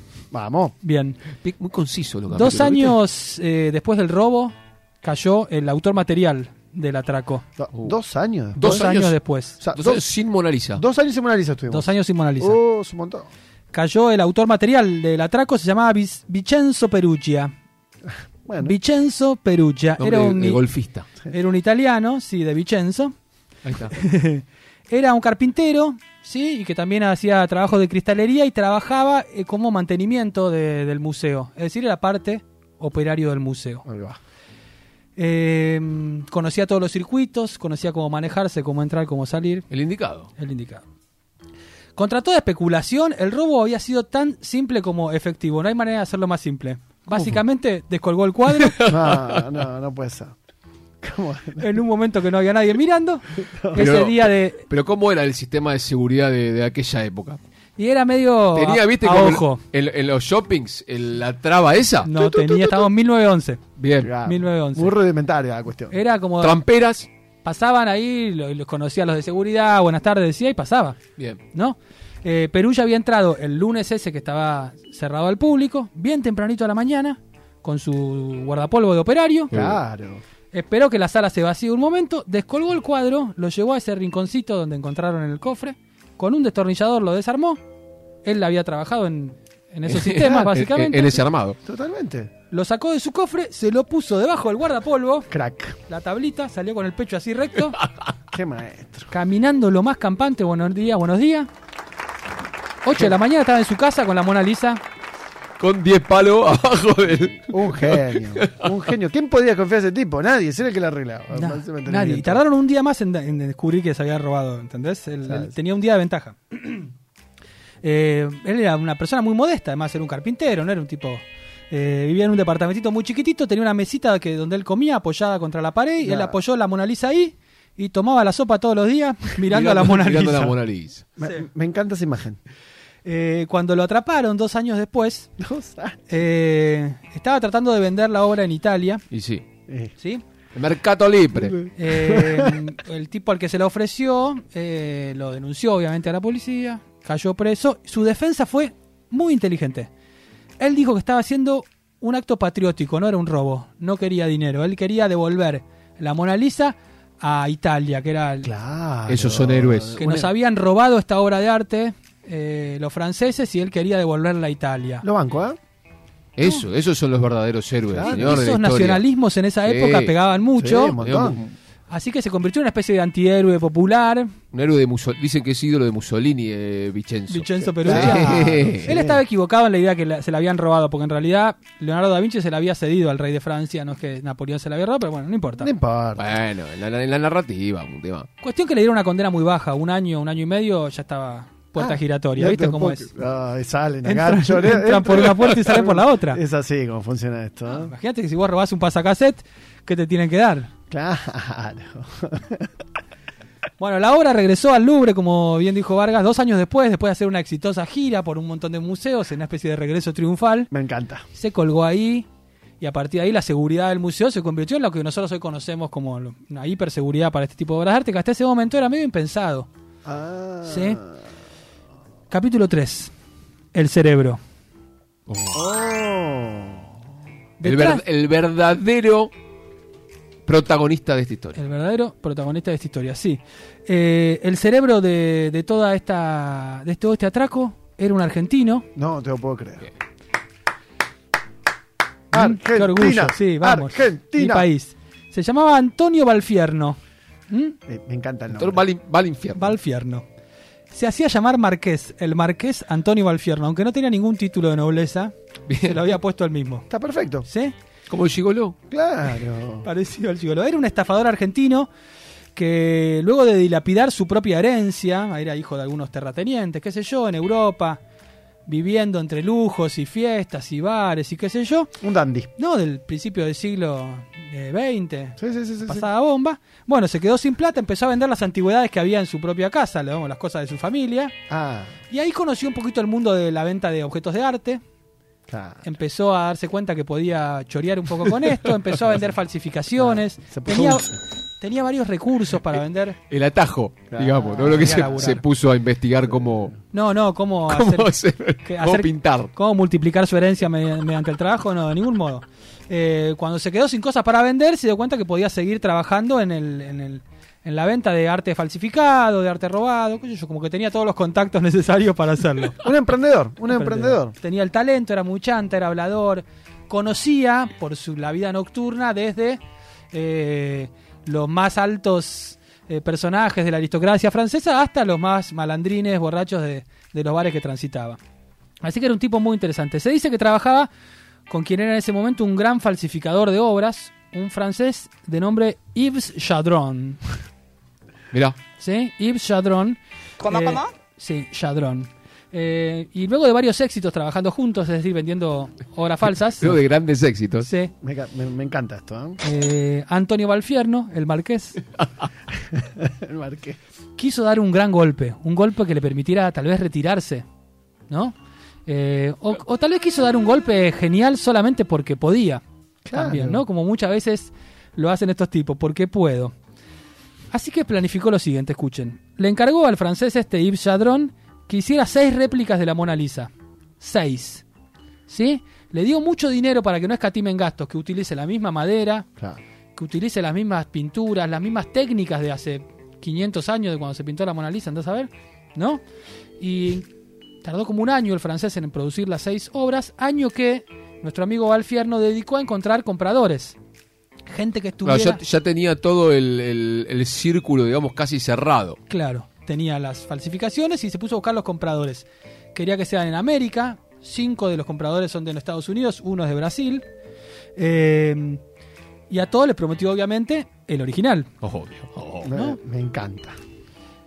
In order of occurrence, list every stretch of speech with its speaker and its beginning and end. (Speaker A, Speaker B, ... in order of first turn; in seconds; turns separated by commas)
Speaker A: 0.3-0.8, Speaker B: 0.8-1.2, Speaker C: 1.4-3.0, Speaker B: 2.3-7.4, Speaker A: 7.6-8.9, Speaker C: 8.6-9.2, Speaker B: 8.6-9.6, Speaker A: 9.6-10.1, Speaker C: 9.7-10.8, Speaker A: 10.7-13.3, Speaker B: 11.7-12.6, Speaker B: 13.7-17.5, Speaker A: 18.1-18.8, Speaker B: 18.6-20.6, Speaker C: 20.0-21.1, Speaker B: 21.2-23.1, Speaker C: 23.6-23.9, Speaker B: 23.9-33.9, Speaker A: 33.9-34.2, Speaker B: 35.2-39.7, Speaker C: 39.7-40.3, Speaker B: 40.4-40.8, Speaker B: 42.0-48.9, Speaker C: 47.1-47.4, Speaker C: 48.5-49.5, Speaker A: 48.9-50.3, Speaker A: 51.0-51.8, Speaker B: 51.6-54.7, Speaker A: 53.4-53.9, Speaker C: 53.8-57.4, Speaker B: 57.8-59.6, Speaker C: 58.5-62.1, Speaker B: 62.0-63.6, Speaker A: 62.2-62.8, Speaker C: 63.8-64.1, Speaker A: 64.0-66.0, Speaker B: 64.2-65.0, Speaker B: 65.9-66.6, Speaker C: 66.4-67.1, Speaker B: 67.4-71.0, Speaker B: 71.5-79.5, Speaker C: 79.5-79.8, Speaker A: 79.5-80.2, Speaker B: 80.5-87.6, Speaker B: 88.2-91.2, Speaker C: 89.9-91.6, Speaker A: 91.6-92.3, Speaker B: 92.5-95.3, Speaker A: 95.3-95.8, Speaker B: 95.9-97.8, Speaker A: 98.3-99.1, Speaker B: 99.1-101.5, Speaker B: 102.8-104.8, Speaker C: 105.6-108.7, Speaker A: 107.5-112.4, Speaker B: 111.3-116.9, Speaker A: 115.3-115.5, Speaker B: 117.8-130.6, Speaker A: 126.0-126.4, Speaker C: 129.4-131.1, Speaker A: 131.2-132.4, Speaker B: 133.1-135.3, Speaker A: 135.4-136.2, Speaker B: 136.1-139.1, Speaker C: 139.1-139.4, Speaker A: 139.7-139.9, Speaker B: 140.0-140.2, Speaker C: 140.5-141.7, Speaker A: 141.4-142.7, Speaker B: 141.8-149.9, Speaker B: 150.6-158.5, Speaker A: 158.4-160.3, Speaker C: 159.1-160.0, Speaker B: 160.0-165.1, Speaker A: 165.0-165.6, Speaker C: 166.4-169.1, Speaker A: 167.9-168.4, Speaker B: 168.0-171.0, Speaker C: 169.7-170.2, Speaker A: 170.6-171.4, Speaker C: 171.0-171.5, Speaker B: 171.9-174.3, Speaker C: 174.5-178.9, Speaker B: 177.3-185.7, Speaker A: 177.7-179.2, Speaker A: 185.6-186.3, Speaker C: 186.2-188.3, Speaker B: 188.4-193.2, Speaker A: 191.8-197.9, Speaker B: 194.0-196.4, Speaker B: 197.7-200.7, Speaker A: 200.9-202.7, Speaker B: 203.8-210.7, Speaker A: 210.7-211.2, Speaker B: 211.3-212.3, Speaker B: 212.8-219.7, Speaker A: 220.1-221.1, Speaker B: 220.7-221.0, Speaker B: 222.3-223.1, Speaker B: 223.7-224.4, Speaker C: 225.3-225.6, Speaker A: 225.5-226.9, Speaker B: 227.6-228.0, Speaker C: 227.6-229.3, Speaker C: 230.5-231.6, Speaker B: 231.6-238.9, Speaker A: 239.0-239.9, Speaker A: 242.3-244.7, Speaker B: 242.3-247.8, Speaker A: 247.9-248.8, Speaker C: 248.5-249.8, Speaker B: 249.5-250.2, Speaker B: 250.9-256.9, Speaker C: 255.7-256.0, Speaker A: 256.9-257.5, Speaker B: 257.4-257.7, Speaker C: 258.1-258.8, Speaker A: 258.9-259.9, Speaker B: 259.8-261.9, Speaker B: 262.5-268.0, Speaker B: 268.7-272.0, Speaker A: 272.0-272.5, Speaker B: 272.6-281.4, Speaker A: 275.4-276.1, Speaker A: 281.5-281.9, Speaker B: 282.1-284.8, Speaker A: 285.5-285.9, Speaker B: 285.8-293.2, Speaker A: 290.0-291.2, Speaker C: 293.3-296.8, Speaker A: 294.1-295.4, Speaker B: 294.7-295.4, Speaker B: 296.9-312.8, Speaker C: 297.7-299.5, Speaker A: 312.8-314.4, Speaker B: 313.7-319.6, Speaker B: 320.1-328.2, Speaker B: 328.8-330.9, Speaker B: 331.5-337.2, Speaker C: 338.3-338.6, Speaker B: 338.8-346.8, Speaker C: 346.4-347.7, Speaker B: 347.6-347.9, Speaker A: 348.0-349.4, Speaker B: 349.4-351.8, Speaker A: 352.6-353.8, Speaker B: 354.2-357.4, Speaker B: 358.1-366.5, Speaker A: 363.1-363.6, Speaker B: 367.5-374.6, Speaker B: 375.3-379.3, Speaker B: 379.9-386.0, Speaker B: 386.6-387.1, Speaker B: 387.6-393.8, Speaker B: 394.5-395.4, Speaker C: 395.1-399.0, Speaker B: 399.1-407.1, Speaker B: 407.8-408.6, Speaker B: 409.3-411.5, Speaker C: 411.6-412.5, Speaker A: 412.4-413.6